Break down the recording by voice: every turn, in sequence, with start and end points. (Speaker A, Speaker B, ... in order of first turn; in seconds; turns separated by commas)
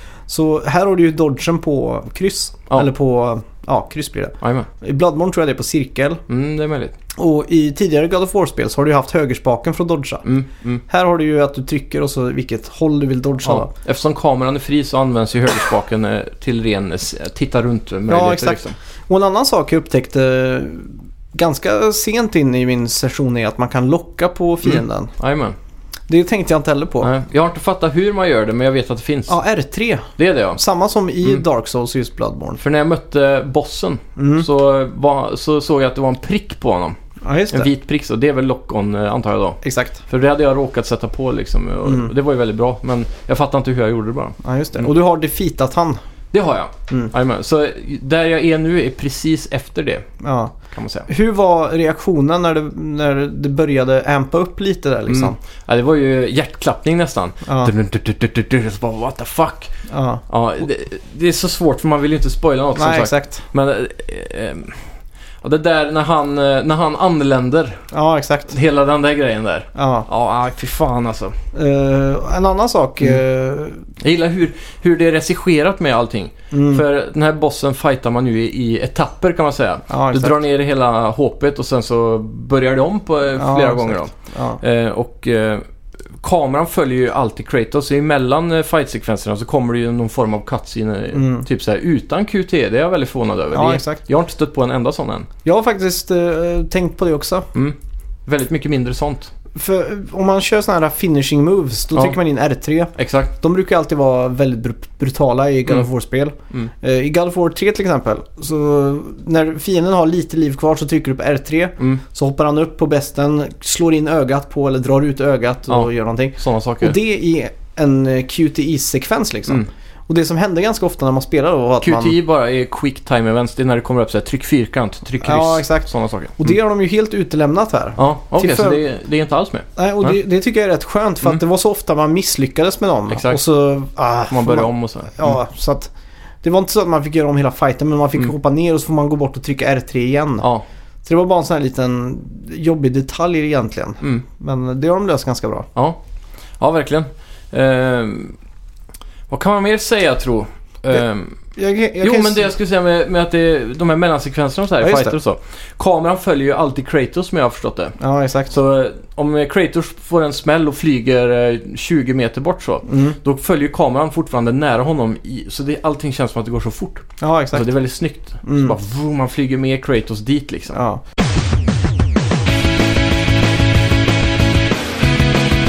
Speaker A: 0.3-6.2, Speaker B: 4.4-4.7, Speaker B: 6.3-6.9, Speaker A: 7.2-10.3, Speaker B: 10.3-10.8, Speaker A: 10.9-13.7, Speaker B: 13.4-18.8, Speaker A: 18.1-25.1, Speaker B: 24.6-25.6, Speaker A: 26.1-27.1, Speaker B: 27.0-29.4, Speaker A: 29.3-32.6, Speaker B: 30.2-30.6, Speaker B: 32.6-37.0, Speaker A: 34.2-34.5, Speaker A: 37.2-37.7, Speaker B: 37.5-44.9, Speaker A: 39.6-40.0, Speaker A: 41.9-42.1, Speaker A: 44.4-46.0, Speaker B: 46.3-50.1, Speaker A: 50.2-50.5, Speaker B: 50.7-51.1, Speaker A: 51.1-55.4, Speaker B: 55.1-59.8, Speaker A: 57.4-57.7, Speaker A: 59.9-60.2, Speaker B: 60.3-64.8, Speaker A: 62.8-63.4, Speaker B: 65.4-67.8, Speaker A: 67.9-68.6, Speaker B: 68.5-71.3, Speaker A: 69.8-70.1, Speaker A: 71.5-73.8, Speaker B: 74.0-85.6, Speaker A: 76.5-76.8, Speaker A: 79.9-80.4, Speaker A: 83.4-84.6, Speaker B: 86.2-95.3, Speaker A: 91.1-91.5, Speaker A: 93.5-94.0, Speaker A: 95.4-97.5, Speaker B: 97.5-99.3, Speaker A: 99.5-122.1, Speaker B: 103.0-103.3, Speaker B: 115.7-117.0, Speaker B: 121.8-126.5, Speaker A: 125.2-128.8, Speaker B: 128.0-130.1, Speaker A: 129.8-135.9, Speaker B: 133.1-133.4, Speaker B: 134.3-135.3, Speaker A: 136.4-140.5, Speaker A: 141.0-145.7, Speaker B: 146.6-148.4, Speaker B: 149.3-151.4, Speaker A: 151.6-152.5, Speaker B: 152.0-158.0, Speaker A: 154.8-155.2, Speaker A: 158.0-158.6, Speaker B: 158.5-170.8, Speaker A: 162.9-163.2, Speaker A: 167.2-167.7, Speaker A: 168.4-168.8, Speaker A: 170.7-171.0